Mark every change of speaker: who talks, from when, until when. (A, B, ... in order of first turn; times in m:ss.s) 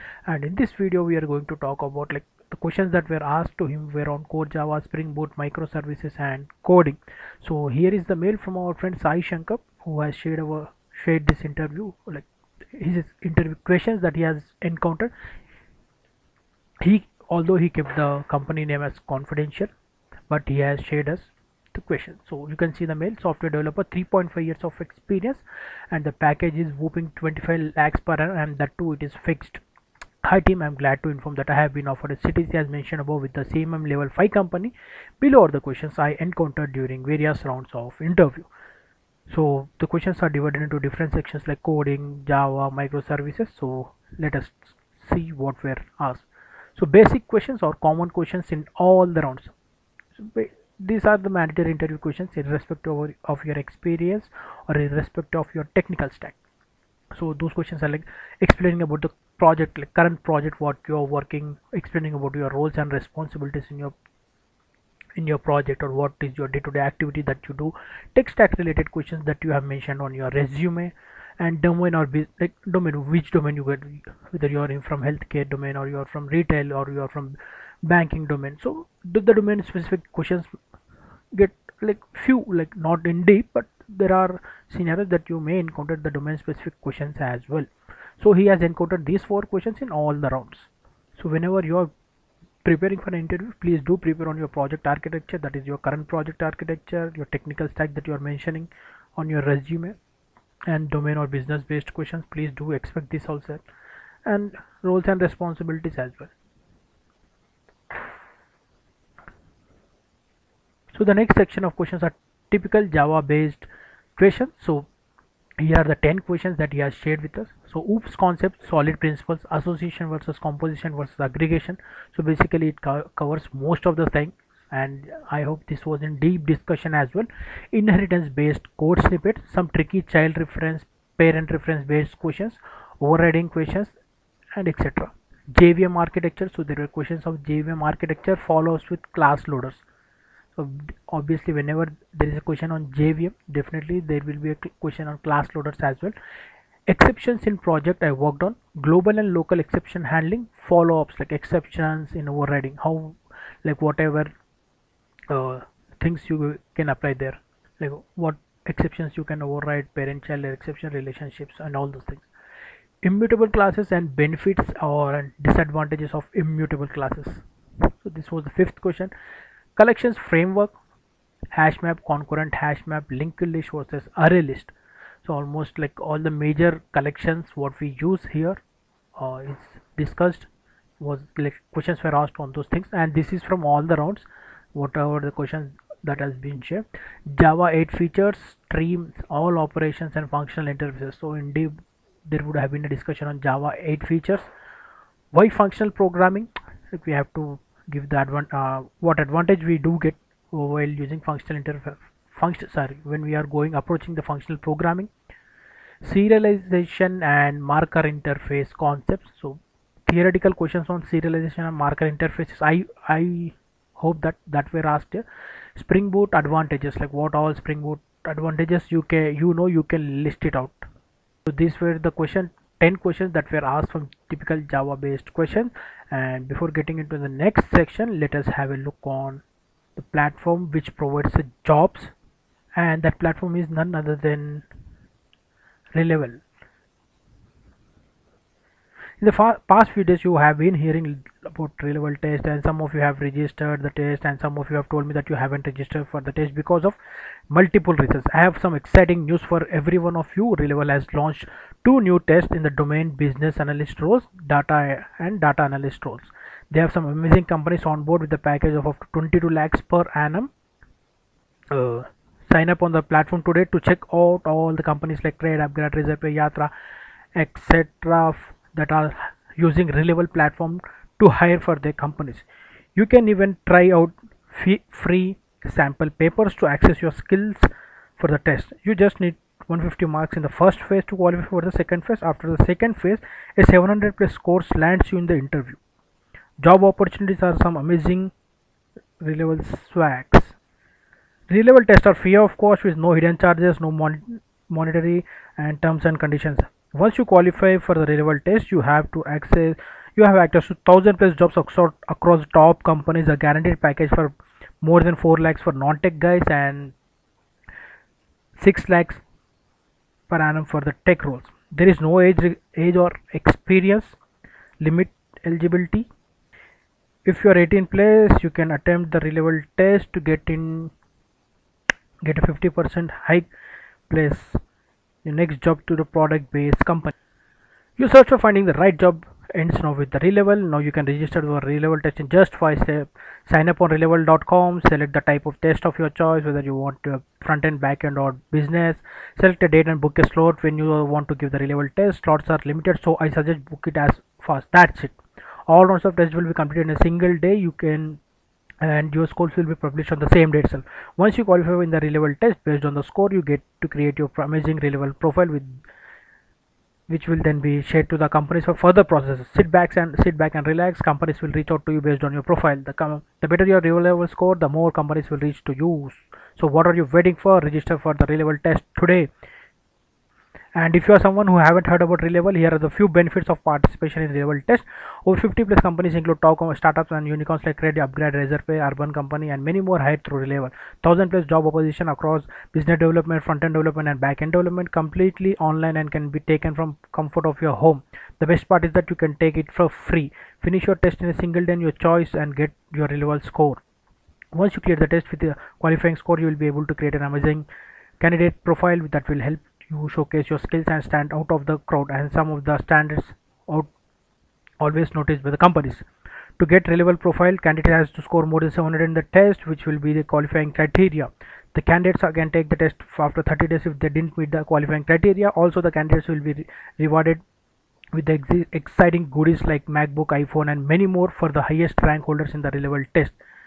0:00.3-0:15.1 A
0:16.8-0:19.7 A
0:20.3-0:29.6 A
0:30.2-0:38.5 A
0:39.3-0:49.5 A
0:50.2-0:56.4 A
0:57.2-1:04.0 A
1:05.2-1:20.5 A
1:21.3-1:27.7 A
1:28.2-1:31.9 A
1:32.6-1:40.0 A
1:40.7-1:43.6 A
1:44.3-1:46.3 A
1:50.9-1:54.9 A
1:55.6-2:14.0 A
2:14.6-2:19.8 A
2:20.6-2:26.2 A
2:26.9-2:34.3 A
2:35.3-2:42.3 A
2:43.0-2:47.4 A
2:48.0-2:49.1 A
2:49.8-2:50.7 A
2:51.5-2:54.7 A
2:55.2-2:58.6 A
2:59.2-3:00.5 A
3:01.0-3:11.8 A
3:12.3-3:14.5 A
3:15.3-3:25.1 A
3:26.0-3:35.2 A
3:35.8-3:40.8 A
3:41.5-3:49.4 A
3:50.0-3:52.1 A
3:52.8-3:54.6 A
3:56.0-3:56.4 A
3:59.2-4:07.0 A
4:07.5-4:20.5 A
4:21.7-4:26.7 A
4:27.4-4:45.8 A
4:46.6-4:48.3 A
4:49.2-4:50.6 A
4:51.5-5:07.0 A
5:08.6-5:09.2 A
5:10.3-5:14.2 A
5:14.8-5:16.1 A
5:17.2-5:20.9 A
5:22.2-5:23.5 A
5:24.1-5:24.6 A
5:25.2-5:27.1 A
5:28.0-5:45.2 A
5:45.7-5:48.2 A
5:48.8-5:55.8 A
5:57.1-6:09.3 A
6:10.8-6:33.8 A
6:34.5-6:37.7 A
6:38.2-6:43.9 A
6:44.8-6:46.1 A
6:46.6-6:57.4 A
6:58.1-7:03.4 A